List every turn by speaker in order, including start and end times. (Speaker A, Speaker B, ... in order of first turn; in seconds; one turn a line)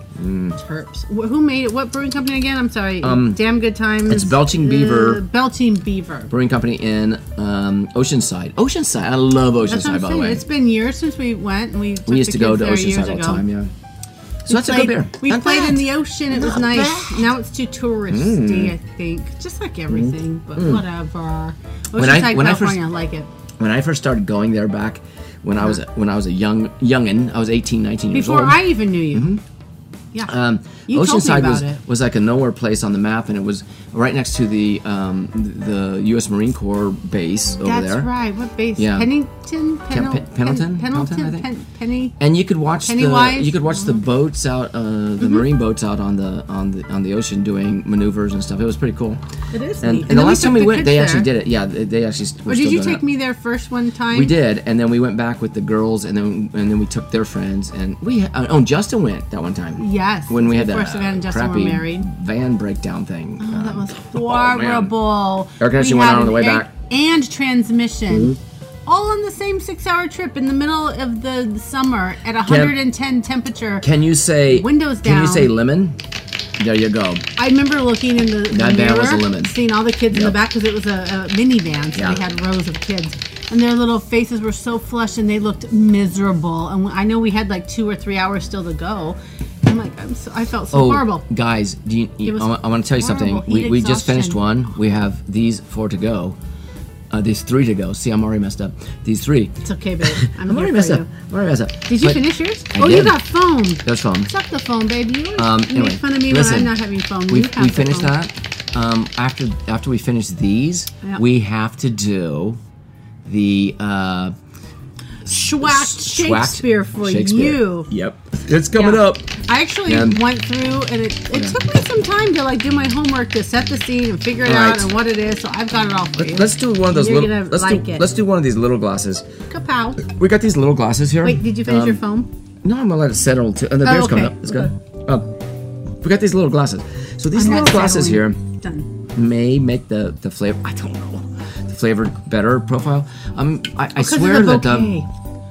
Speaker A: 0.2-0.6
Speaker B: 0.6-6.3
Speaker A: 3.0-3.4
Speaker A: 4.1-5.2
Speaker A: 6.3-10.5
Speaker B: 9.7-13.4
Speaker A: 12.1-13.7
Speaker A: 14.5-17.3
Speaker B: 14.5-23.3
Speaker A: 18.1-18.8
Speaker A: 19.9-20.8
Speaker A: 22.0-22.8
Speaker A: 23.6-29.4
Speaker B: 28.1-29.3
Speaker A: 30.2-38.1
Speaker B: 30.9-31.8
Speaker B: 37.6-42.2
Speaker A: 38.8-39.1
Speaker A: 39.9-41.5
Speaker A: 42.2-49.2
Speaker B: 42.8-44.0
Speaker B: 45.2-45.5
Speaker B: 49.5-51.3
Speaker A: 49.8-53.0
Speaker B: 52.5-54.3
Speaker A: 54.1-64.9
Speaker B: 59.8-62.1
Speaker B: 63.4-73.9
Speaker A: 65.6-66.7
Speaker A: 72.5-72.8
Speaker A: 73.8-76.0
Speaker B: 74.5-75.5
Speaker A: 76.6-77.3
Speaker B: 77.4-91.2
Speaker A: 78.5-79.5
Speaker A: 80.1-80.4
Speaker A: 81.9-82.2
Speaker A: 90.7-96.4
Speaker B: 92.3-94.5
Speaker A: 97.1-103.2
Speaker B: 99.6-101.1
Speaker B: 101.9-108.1
Speaker A: 103.8-104.3
Speaker A: 105.4-112.6
Speaker A: 113.2-114.3
Speaker B: 115.3-117.9
Speaker A: 115.6-119.3
Speaker B: 118.7-128.1
Speaker A: 119.9-120.2
Speaker A: 121.3-121.6
Speaker A: 124.5-124.9
Speaker A: 126.2-129.3
Speaker B: 129.5-130.1
Speaker A: 130.0-132.0
Speaker B: 131.2-132.3
Speaker A: 132.6-135.3
Speaker B: 133.8-134.7
Speaker A: 136.0-138.4
Speaker B: 137.3-138.9
Speaker A: 139.1-144.9
Speaker B: 144.0-145.1